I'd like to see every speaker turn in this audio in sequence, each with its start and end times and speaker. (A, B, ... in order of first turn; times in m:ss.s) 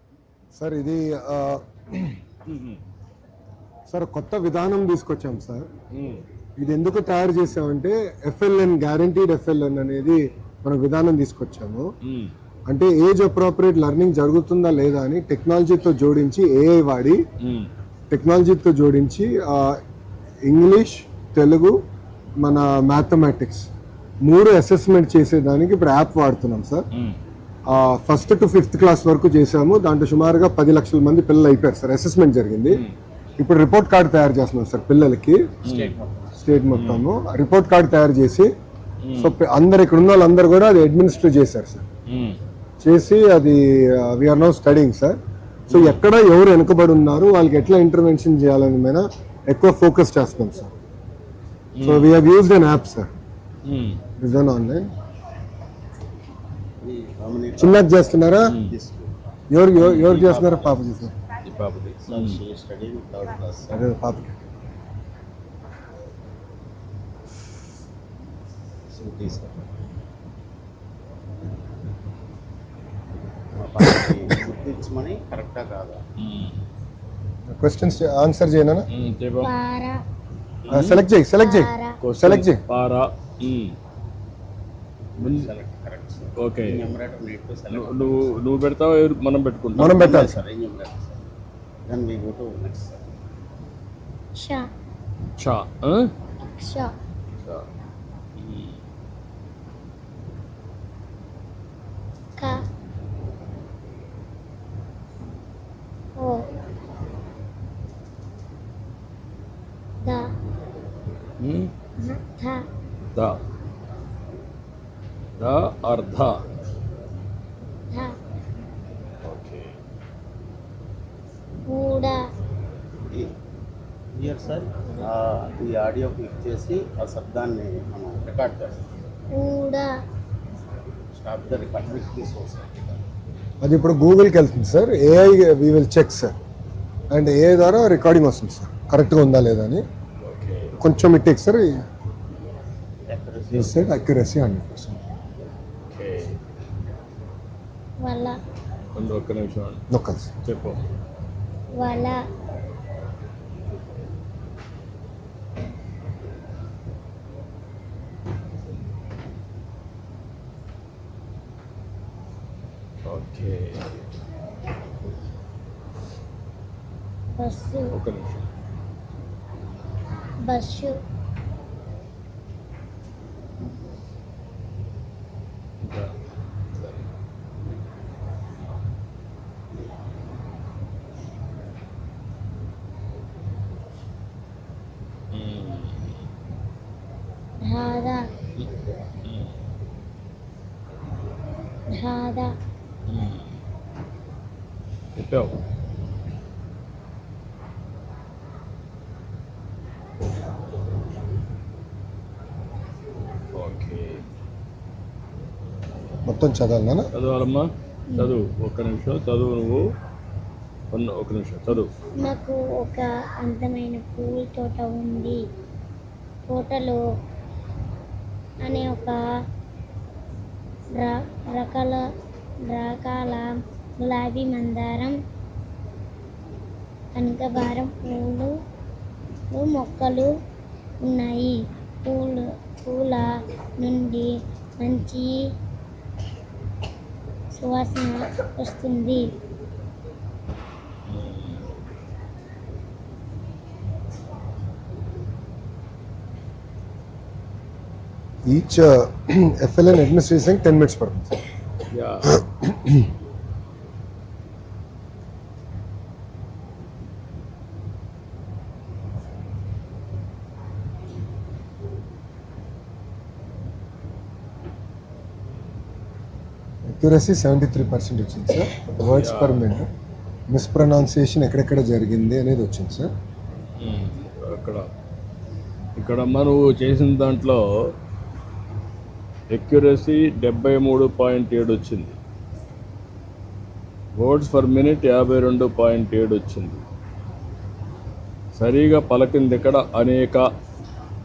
0:00.5-0:02.2 A
0:02.4-0:02.8 B
0:03.9-0:05.7 A
0:05.9-0:06.2 B
0:06.6-0:11.9 A
0:12.0-0:12.3 B
0:12.7-0:17.2 A
0:17.4-0:17.7 B
0:18.1-0:19.8 A
0:20.5-0:21.8 A
0:22.4-0:23.7 A
0:24.2-0:26.9 A
0:26.9-0:27.2 B
0:27.7-0:32.8 A
0:32.7-0:32.9 B
0:33.4-0:35.4 A
0:35.6-0:35.9 B
0:35.6-0:36.4 C
0:36.4-0:38.5 A
0:36.7-0:37.0 B
0:39.0-0:39.4 B
0:39.2-0:41.8 A
0:42.1-0:42.4 B
0:42.8-0:45.2 A
0:45.7-0:46.0 B
0:45.7-0:50.7 A
0:51.8-0:52.2 B
0:51.8-0:53.1 A
0:53.6-0:54.0 B
0:54.2-0:54.9 A
0:56.8-0:58.0 C
0:57.6-0:58.6 A
0:58.4-0:58.7 B
0:58.6-0:59.1 C
0:59.5-1:01.1 A
0:59.8-1:00.2 B
0:59.9-1:00.9 C
1:01.4-1:02.4 B
1:02.0-1:03.8 C
1:03.7-1:04.3 A
1:08.9-1:09.6 C
1:13.5-1:16.0 C
1:13.8-1:14.1 A
1:16.2-1:16.6 B
1:17.5-1:18.9 A
1:18.9-1:19.5 B
1:19.4-1:20.0 D
1:20.7-1:21.0 B
1:20.7-1:22.6 A
1:21.4-1:22.0 D
1:22.0-1:23.7 B
1:25.2-1:25.5 B
1:25.2-1:28.3 C
1:26.4-1:26.8 B
1:27.7-1:30.2 B
1:29.8-1:30.4 A
1:29.8-1:31.2 C
1:31.9-1:33.0 C
1:34.4-1:34.6 D
1:35.4-1:36.1 B
1:36.4-1:36.9 D
1:37.4-1:37.7 B
1:38.4-1:38.8 B
1:42.4-1:42.6 D
1:46.2-1:46.4 D
1:51.4-1:51.7 B
1:52.0-1:52.6 D
1:53.1-1:53.4 B
1:55.4-1:56.4 B
1:59.2-1:59.7 B
2:01.7-2:02.2 D
2:04.1-2:08.8 C
2:09.3-2:09.9 D
2:11.1-2:13.0 C
2:13.6-2:16.3 A
2:17.1-2:19.8 A
2:20.2-2:20.7 B
2:20.8-2:21.8 A
2:23.1-2:23.8 C
2:23.5-2:25.0 A
2:25.9-2:26.4 B
2:28.0-2:28.4 D
2:28.9-2:29.8 B
2:29.9-2:30.3 A
2:30.4-2:30.8 B
2:31.7-2:32.2 D
2:43.0-2:44.0 B
2:47.4-2:47.9 D
2:47.9-2:48.4 B
2:50.4-2:51.0 D
2:55.8-2:56.1 B
2:56.7-2:57.0 B
3:05.3-3:06.1 B
3:07.6-3:08.2 D
3:09.2-3:09.5 B
3:11.9-3:12.5 D
3:13.1-3:13.5 B
3:15.1-3:15.6 B
3:23.5-3:24.2 B
3:26.2-3:27.0 A
3:27.1-3:29.8 B
3:30.9-3:31.9 B
3:32.2-3:35.4 D
3:36.5-3:37.0 D
3:38.6-3:39.2 D
3:41.0-3:42.0 D
3:42.7-3:45.2 D
3:47.1-3:48.5 D
3:49.5-3:50.3 D
3:51.0-3:55.4 D
3:57.5-3:59.2 D
4:01.1-4:01.6 B
4:08.5-4:11.4 A
4:11.9-4:12.4 B
4:12.4-4:13.0 A
4:26.9-4:29.9 A
4:29.0-4:29.7 B
4:30.5-4:33.1 A
4:33.8-4:34.9 B
4:36.0-4:37.9 B
4:39.5-4:42.2 B
4:44.2-4:46.8 B
4:48.5-4:50.5 B